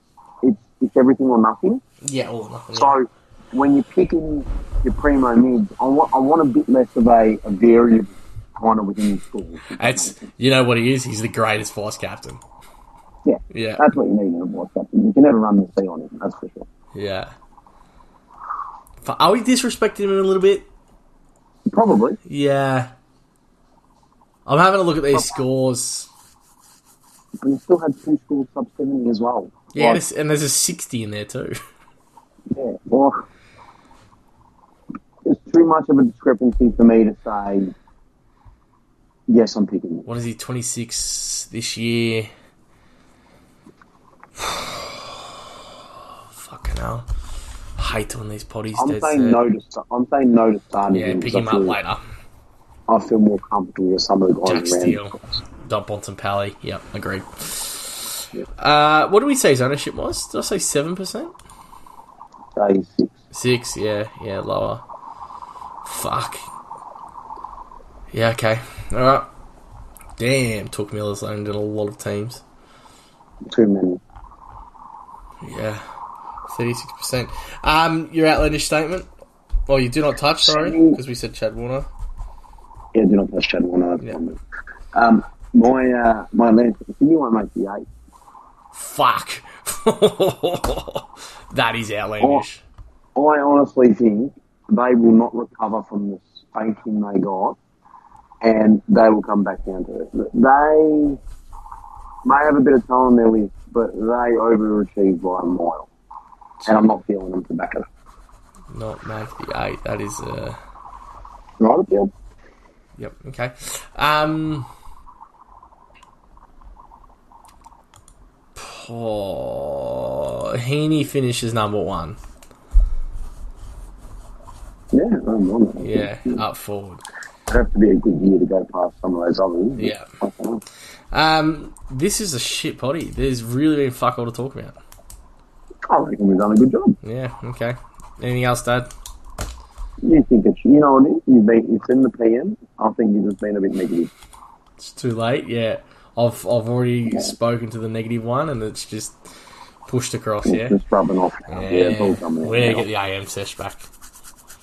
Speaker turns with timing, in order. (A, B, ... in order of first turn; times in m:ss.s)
0:00.4-0:01.8 A
0:02.0-0:03.0 B
0:02.7-0:10.2 A
0:09.7-0:12.4 B
0:13.2-0:16.7 A
0:13.5-0:13.8 B
0:16.9-0:17.3 B
0:19.0-0:20.7 B
0:21.7-0:22.2 A
0:22.3-0:22.9 B
0:24.5-0:26.1 B
0:27.4-0:30.0 A
0:29.7-0:31.6 B
0:32.5-0:33.2 A
0:35.2-0:37.7 A
0:39.3-0:40.1 A
0:40.1-0:42.3 B
0:44.4-0:45.2 B
0:46.0-0:47.1 B
0:47.8-0:49.4 B
0:48.8-0:51.8 A
0:50.9-0:52.0 B
0:52.9-0:55.4 A
0:54.4-1:01.3 B
1:02.6-1:03.2 A
1:03.3-1:04.8 B
1:05.8-1:06.5 B
1:08.1-1:09.3 B
1:10.2-1:12.4 B
1:13.5-1:14.0 A
1:15.4-1:15.8 B
1:16.5-1:19.1 B
1:19.7-1:21.9 B
1:20.4-1:21.0 A
1:22.9-1:24.4 A
1:24.9-1:27.8 A
1:28.7-1:32.6 B
1:33.2-1:37.6 A
1:38.4-1:41.2 A
1:42.2-1:45.9 A
1:46.6-1:46.9 B
1:46.7-1:47.9 A
1:48.7-1:50.6 B
1:51.6-1:52.1 A
1:53.0-1:54.7 B
1:58.6-2:02.2 B
2:04.9-2:06.4 A
2:05.8-2:07.0 B
2:07.5-2:10.6 A
2:09.8-2:10.1 B
2:11.1-2:14.8 B
2:15.9-2:17.0 A
2:17.0-2:18.9 B
2:20.0-2:24.1 A
2:24.8-2:29.2 B
2:27.1-2:27.3 A
2:29.9-2:30.8 B
2:30.4-2:32.9 A
2:31.5-2:33.9 B